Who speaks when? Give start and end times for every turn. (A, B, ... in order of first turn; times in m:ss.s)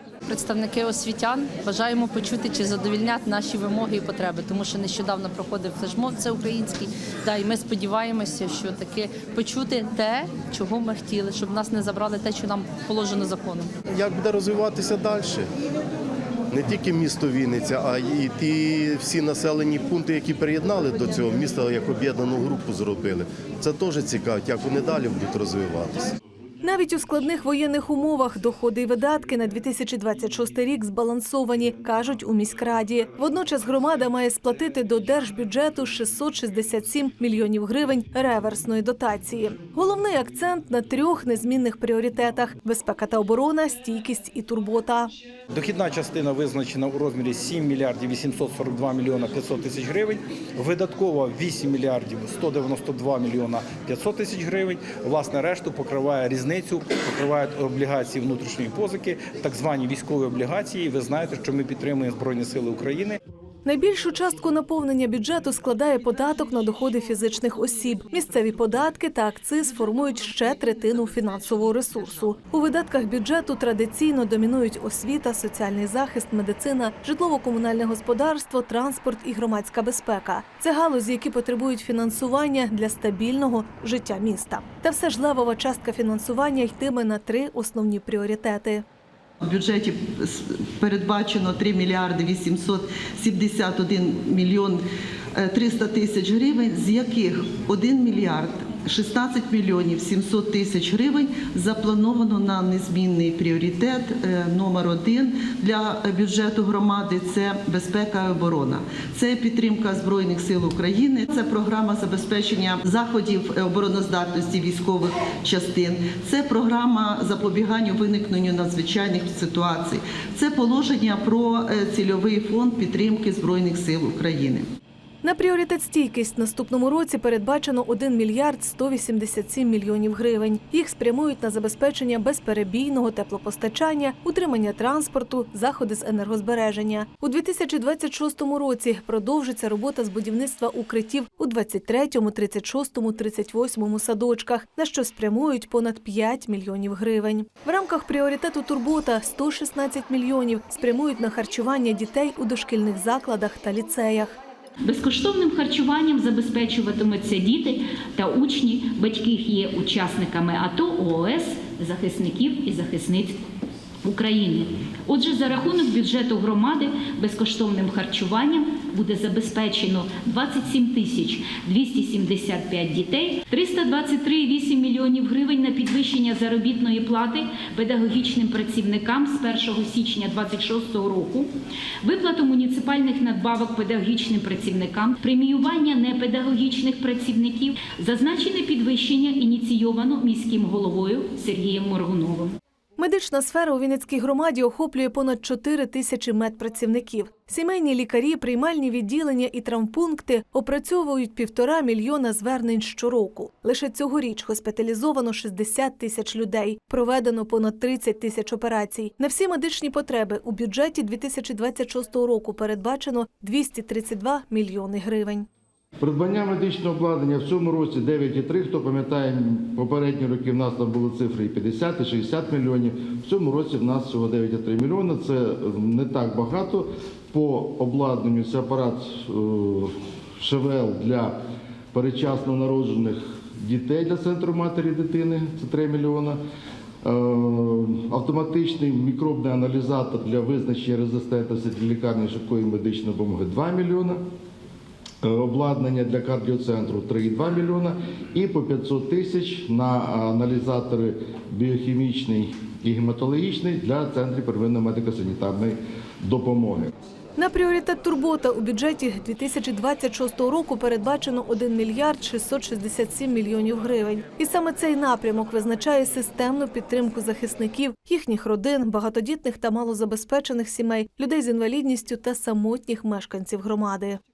0:00.3-0:13.7 A
0:13.9-0:15.5 B
0:16.5-0:26.1 B
0:26.6-0:45.1 C
0:45.5-1:03.2 D
1:03.7-1:28.8 C
1:29.4-1:30.0 E
1:30.8-1:34.8 E
1:35.4-2:04.6 E
2:05.2-2:34.4 C
2:34.8-2:43.4 F
2:44.0-3:01.5 F
3:02.0-3:12.6 F
3:13.0-3:35.5 C
3:36.0-3:51.4 G
3:51.9-3:56.4 G
3:57.0-4:04.2 G
4:05.2-4:16.9 G
4:17.4-4:34.2 C